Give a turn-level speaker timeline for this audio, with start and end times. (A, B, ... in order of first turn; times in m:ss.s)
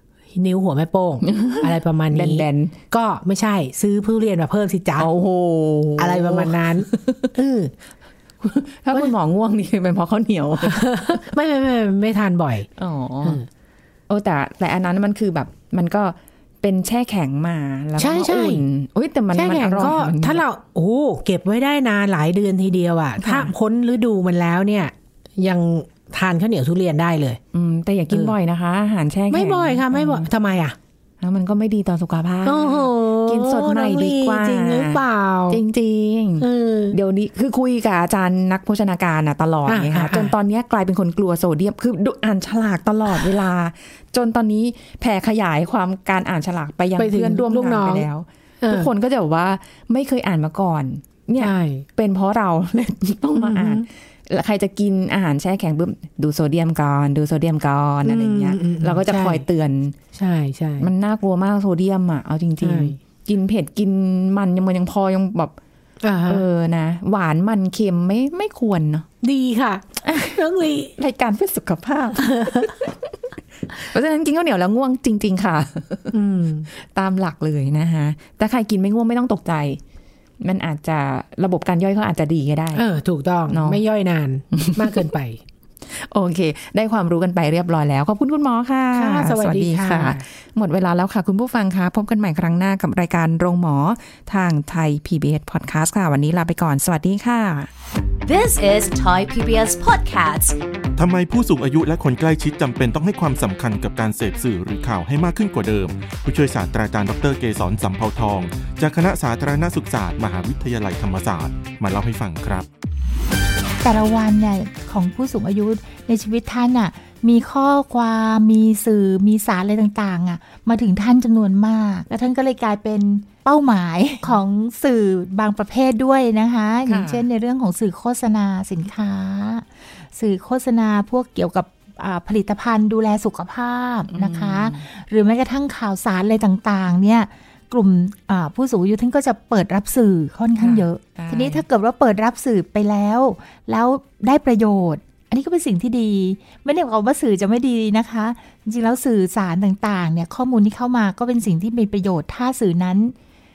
0:00.3-0:05.1 A
0:01.2-0:02.8 B
0:05.0-0:07.3 B
0:06.0-0:07.7 A
0:08.4-0:11.2 B
0:10.6-0:12.7 A
0:12.8-0:13.4 B
0:14.1-0:20.4 B
0:18.0-0:18.6 A
0:19.3-0:27.4 A
0:23.2-0:23.5 B
0:27.5-0:30.3 B
0:28.1-0:28.4 A
0:29.3-0:30.8 A
0:31.2-1:00.0 B
0:32.4-0:35.6 A
0:36.4-0:37.0 A
0:39.7-0:40.3 A
0:47.0-0:48.1 A
0:48.6-0:48.9 A
0:51.4-0:51.8 A
0:53.4-0:53.9 A
0:58.0-0:59.4 A
1:00.1-1:00.9 A
1:00.8-1:05.5 B
1:02.6-1:03.0 A
1:06.0-1:06.5 A
1:06.3-1:09.1 B
1:09.2-1:10.9 A
1:10.1-1:10.4 B
1:11.0-1:13.0 B
1:12.2-1:12.7 A
1:13.8-1:16.1 B
1:16.1-1:16.7 A
1:16.7-1:19.8 B
1:20.4-1:22.8 B
1:22.7-1:25.4 A
1:23.5-1:23.8 B
1:24.5-1:25.1 B
1:25.9-1:37.7 B
1:28.9-1:30.2 A
1:38.2-1:40.6 C
1:41.0-1:52.7 D
1:53.8-2:33.1 E
2:06.9-2:07.2 B
2:14.1-2:14.8 B
2:20.6-2:21.6 B